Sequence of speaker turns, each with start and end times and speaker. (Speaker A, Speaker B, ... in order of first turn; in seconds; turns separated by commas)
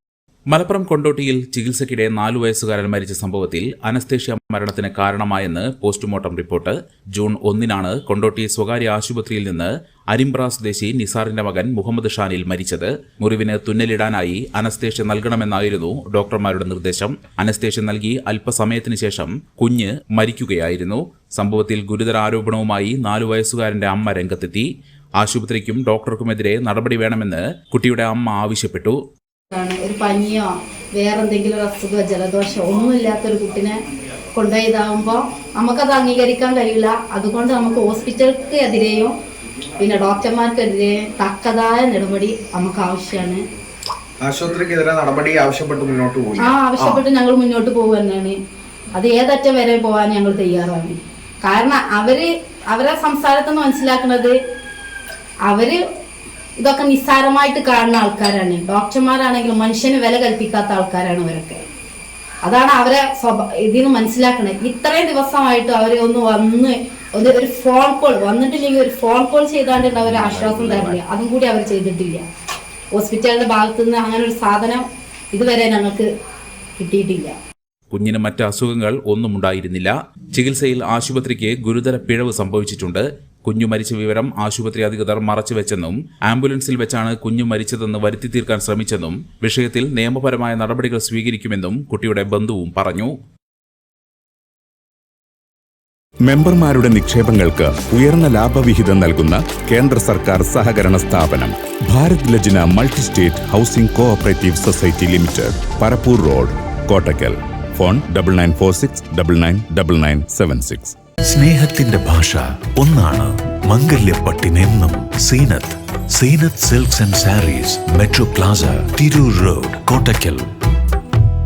Speaker A: 0.5-24.7, Speaker A: 25.2-29.0, Speaker B: 29.5-33.8, Speaker B: 34.3-39.1, Speaker B: 39.8-43.4, Speaker C: 44.2-46.8, Speaker B: 46.4-48.4, Speaker B: 48.9-54.4, Speaker B: 55.4-55.8, Speaker B: 56.6-61.6, Speaker B: 62.4-72.2, Speaker A: 70.3-70.9, Speaker B: 72.9-76.1, Speaker B: 76.8-77.3, Speaker A: 77.9-93.1, Speaker D: 96.2-110.9, Speaker E: 111.3-120.5